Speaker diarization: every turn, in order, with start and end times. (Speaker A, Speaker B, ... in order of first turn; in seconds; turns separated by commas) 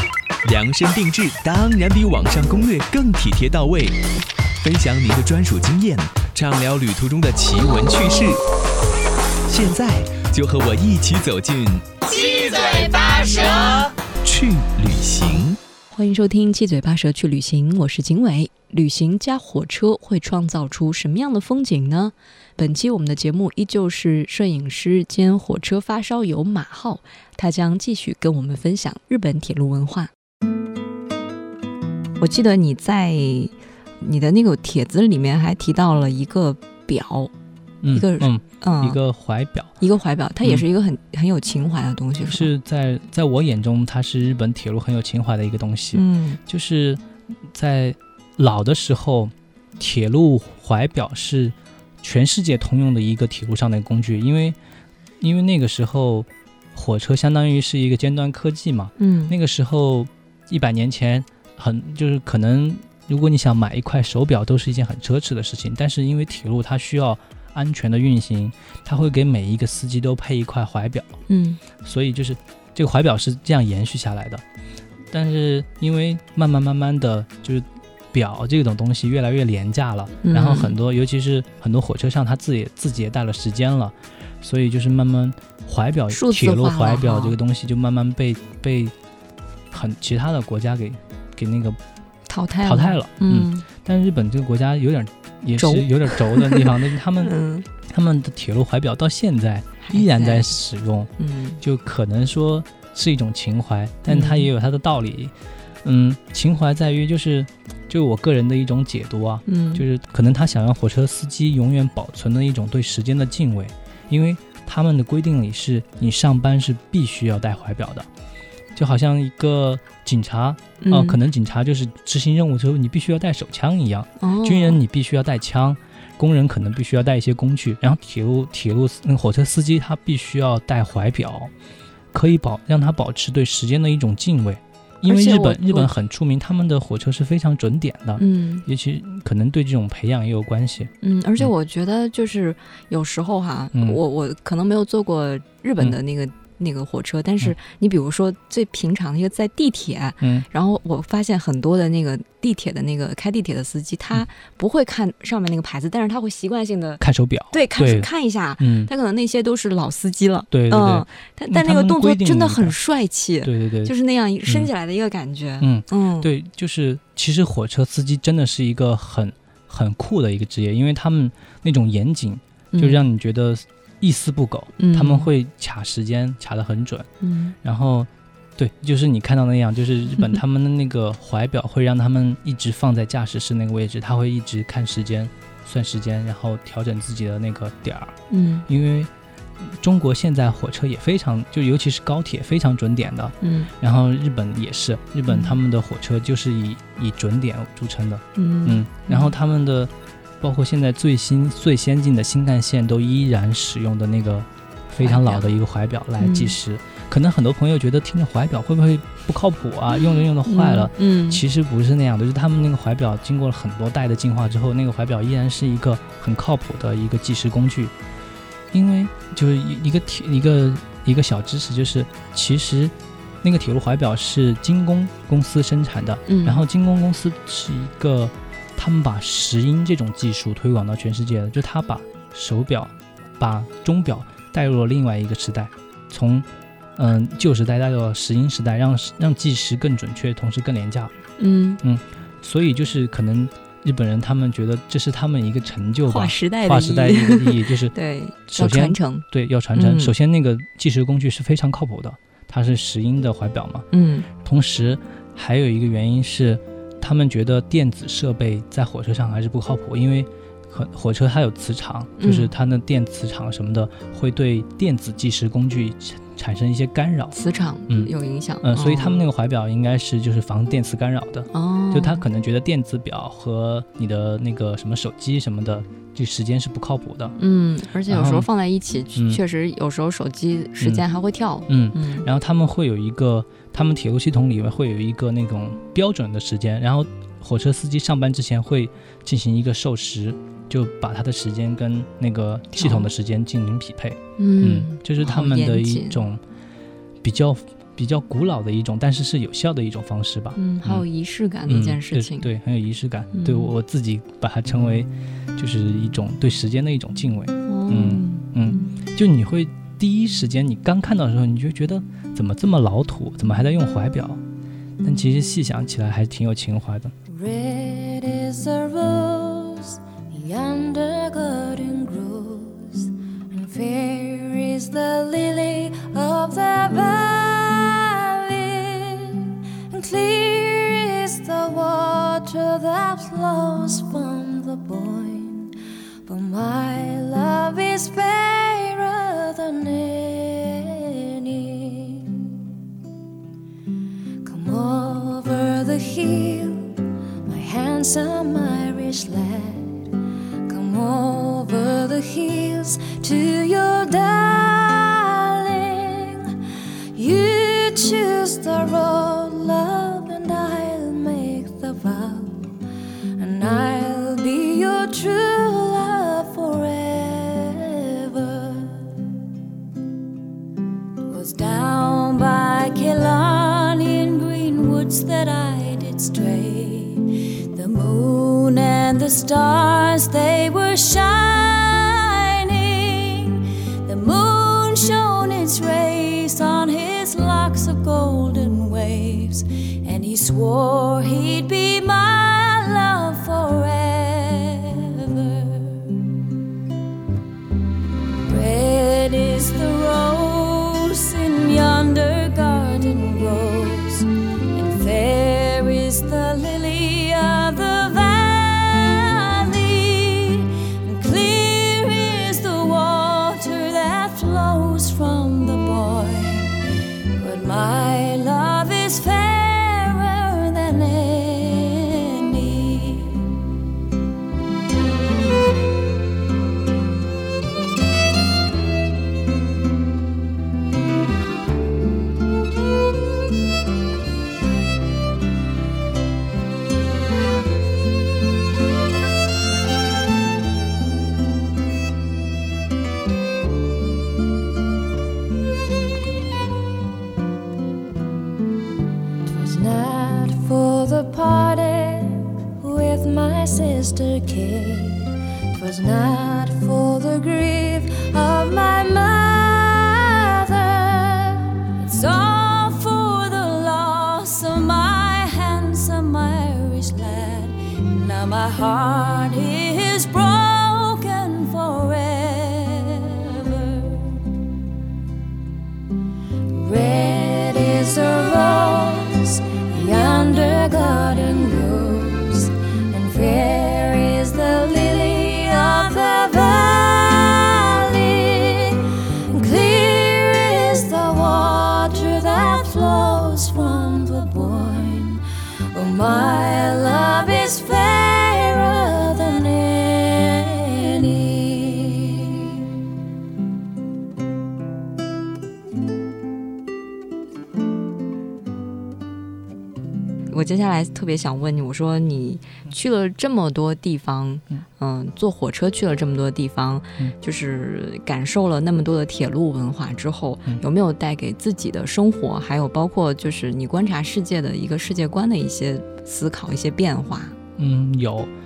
Speaker A: 0.4-4.0, Speaker A: 4.6-8.4, Speaker A: 9.5-15.6, Speaker B: 15.9-30.1, Speaker B: 32.2-37.3, Speaker C: 37.8-39.7, Speaker B: 37.9-39.0, Speaker B: 39.8-42.5, Speaker C: 42.2-54.6, Speaker B: 45.9-46.4, Speaker C: 55.2-71.2, Speaker B: 59.0-59.3, Speaker B: 71.3-71.6, Speaker C: 71.8-74.4, Speaker C: 75.1-88.9, Speaker B: 80.2-80.7, Speaker B: 86.1-87.3, Speaker C: 89.7-91.8, Speaker B: 92.3-93.6, Speaker C: 92.6-97.3, Speaker B: 95.6-97.7, Speaker C: 97.8-118.1, Speaker B: 99.8-100.6, Speaker B: 101.2-101.6, Speaker B: 104.1-104.5, Speaker B: 109.5-109.8, Speaker C: 118.7-131.5, Speaker B: 120.8-121.2, Speaker B: 124.2-124.8, Speaker C: 132.1-141.5, Speaker B: 135.0-135.9, Speaker B: 138.2-138.7, Speaker B: 141.0-166.3, Speaker C: 143.7-144.0, Speaker C: 150.2-150.4, Speaker C: 157.0-158.1, Speaker C: 158.6-158.9, Speaker C: 160.5-162.8, Speaker C: 163.4-163.9, Speaker C: 165.6-177.1, Speaker B: 172.7-173.0, Speaker B: 174.8-175.3, Speaker B: 177.2-177.5, Speaker C: 177.6-217.9, Speaker B: 188.3-188.7, Speaker B: 193.4-193.7, Speaker B: 195.3-195.6, Speaker B: 198.3-199.3, Speaker B: 205.0-205.5, Speaker B: 206.2-206.6, Speaker B: 210.4-211.4, Speaker C: 218.7-241.1, Speaker B: 226.3-226.6, Speaker B: 241.4-241.8, Speaker C: 241.8-247.9, Speaker B: 246.1-250.1, Speaker C: 248.5-253.8, Speaker B: 253.9-254.3, Speaker C: 254.4-267.3, Speaker B: 262.2-262.5, Speaker B: 267.3-269.2, Speaker C: 267.9-277.4, Speaker B: 271.5-272.2, Speaker B: 277.4-282.3, Speaker C: 278.1-278.5, Speaker C: 281.7-296.4, Speaker B: 292.7-293.1, Speaker B: 294.4-296.2, Speaker C: 297.2-301.1, Speaker B: 300.6-302.5, Speaker C: 301.6-314.4, Speaker B: 303.3-303.7, Speaker B: 307.7-308.9, Speaker C: 315.0-317.1, Speaker D: 317.3-335.7, Speaker D: 336.2-342.5, Speaker D: 344.4-346.9, Speaker D: 347.4-350.1, Speaker D: 350.6-356.6, Speaker D: 357.1-362.7, Speaker D: 363.4-369.1, Speaker D: 371.3-396.1, Speaker D: 398.4-416.7, Speaker D: 417.4-423.6, Speaker D: 449.4-474.4, Speaker D: 476.7-502.9, Speaker B: 510.5-527.5, Speaker C: 527.8-528.5